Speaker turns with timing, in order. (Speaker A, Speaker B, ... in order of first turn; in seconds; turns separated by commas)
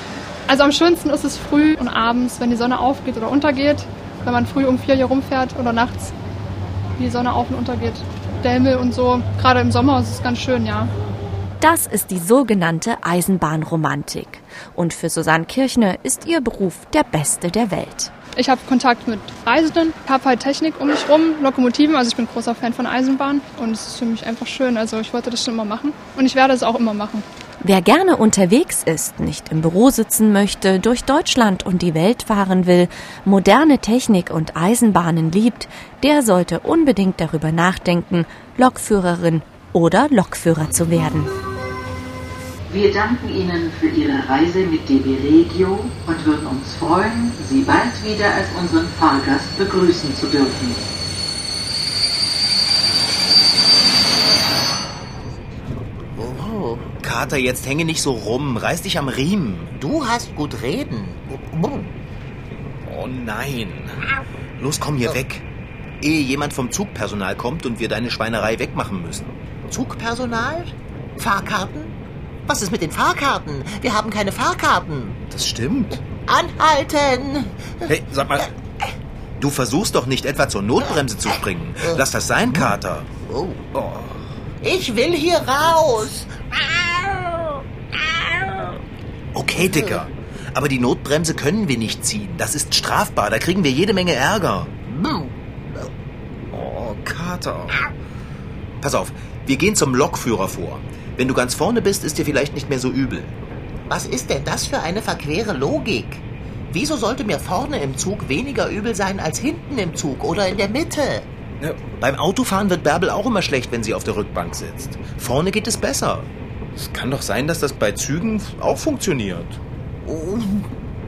Speaker A: 0.5-6.1, Speaker A: 7.0-10.9, Speaker B: 11.6-18.1, Speaker A: 18.4-27.2, Speaker B: 27.6-41.3, Speaker C: 42.7-50.9, Speaker D: 56.1-56.9, Speaker E: 57.0-59.7, Speaker D: 59.8-61.9, Speaker E: 62.8-64.0, Speaker E: 64.6-65.5, Speaker E: 66.0-69.3, Speaker D: 69.7-75.2, Speaker E: 75.3-76.0, Speaker D: 76.1-77.9, Speaker E: 77.9-78.5, Speaker E: 79.4-83.1, Speaker D: 81.8-82.0, Speaker D: 83.2-83.7, Speaker E: 83.7-84.2, Speaker D: 84.6-86.3, Speaker E: 89.3-94.7, Speaker D: 89.6-90.0, Speaker D: 94.9-95.9, Speaker E: 96.5-97.8, Speaker E: 98.8-103.3, Speaker D: 103.9-111.3, Speaker E: 111.6-119.6, Speaker D: 120.0-120.7